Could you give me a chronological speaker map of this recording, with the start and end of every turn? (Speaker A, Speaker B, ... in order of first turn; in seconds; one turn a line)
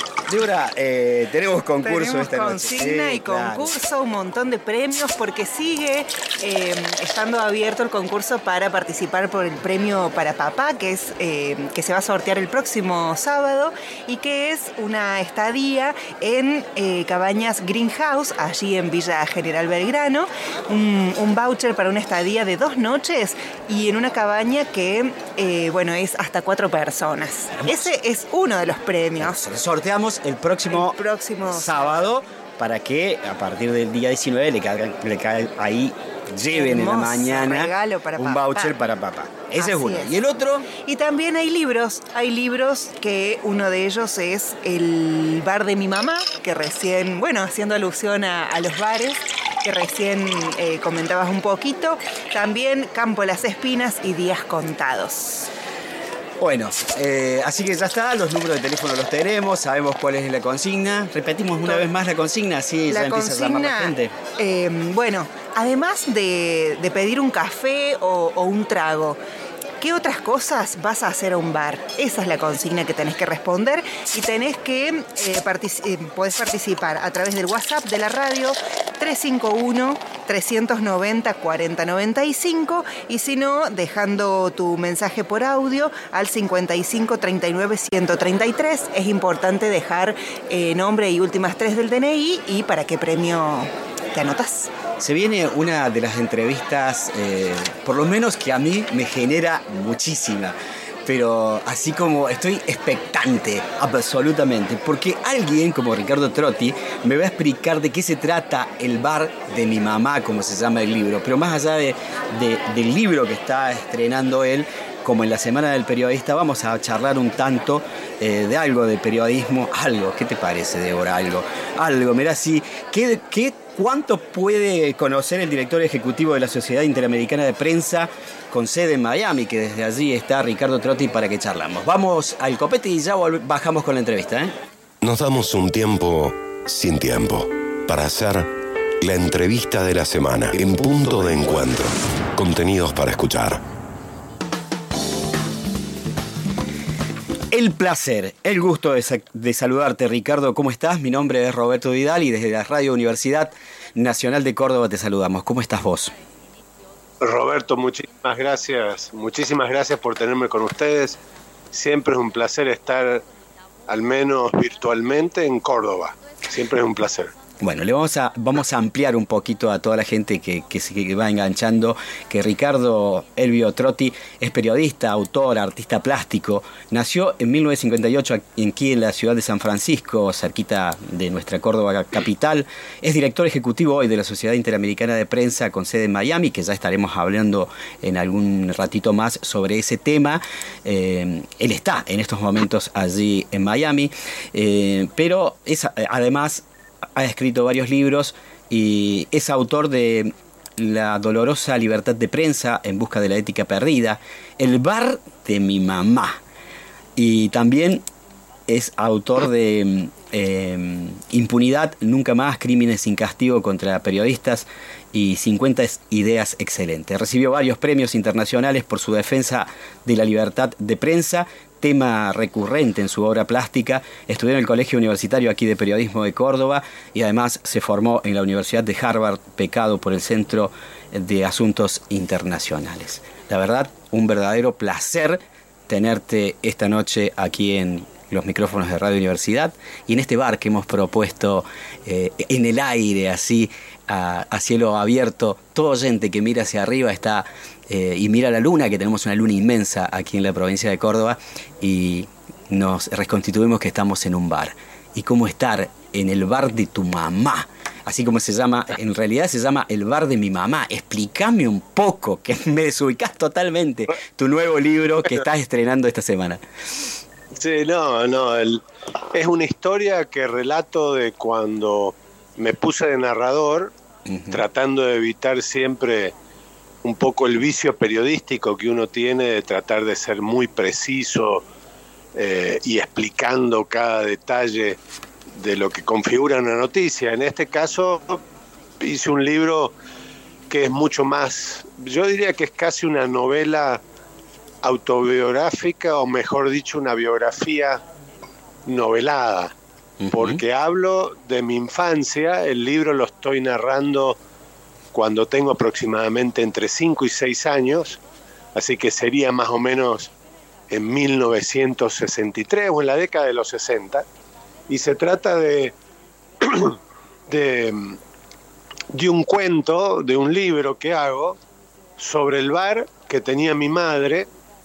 Speaker A: 0.3-3.8
Speaker B: 1.8-29.4
Speaker A: 27.5-27.9
Speaker A: 29.2-31.0
Speaker B: 30.7-31.9
Speaker A: 31.5-40.7
Speaker B: 36.5-38.8
Speaker B: 39.6-40.2
Speaker B: 40.8-55.5
Speaker A: 56.4-64.1
Speaker B: 62.9-69.2
Speaker B: 69.8-94.7
Speaker A: 95.0-134.5
Speaker C: 135.0-138.5
Speaker C: 139.0-143.6
Speaker A: 147.5-156.1
Speaker D: 157.2-161.2
Speaker D: 161.7-163.2
Speaker D: 163.9-167.3
Speaker A: 167.6-196.6
Speaker A: 197.2-206.4
Speaker A: 207.2-208.1
Speaker A: 208.7-266.6
Speaker D: 267.6-268.8
Speaker D: 269.3-273.9
Speaker A: 274.3-274.6
Speaker D: 274.5-276.3
Speaker D: 277.0-281.6
Speaker D: 282.4-285.0
Speaker D: 285.6-288.4
Speaker D: 289.0-289.9
Speaker D: 290.7-294.0
Speaker D: 294.8-298.0
Speaker D: 298.9-299.8
Speaker A: 300.2-300.6
Speaker D: 300.3-304.4
Speaker D: 305.1-308.2
Speaker D: 308.8-310.3
Speaker D: 310.9-314.2
Speaker D: 314.9-315.9
Speaker D: 316.6-316.9
Speaker D: 317.5-318.2
Speaker D: 319.1-321.6
Speaker D: 322.2-324.5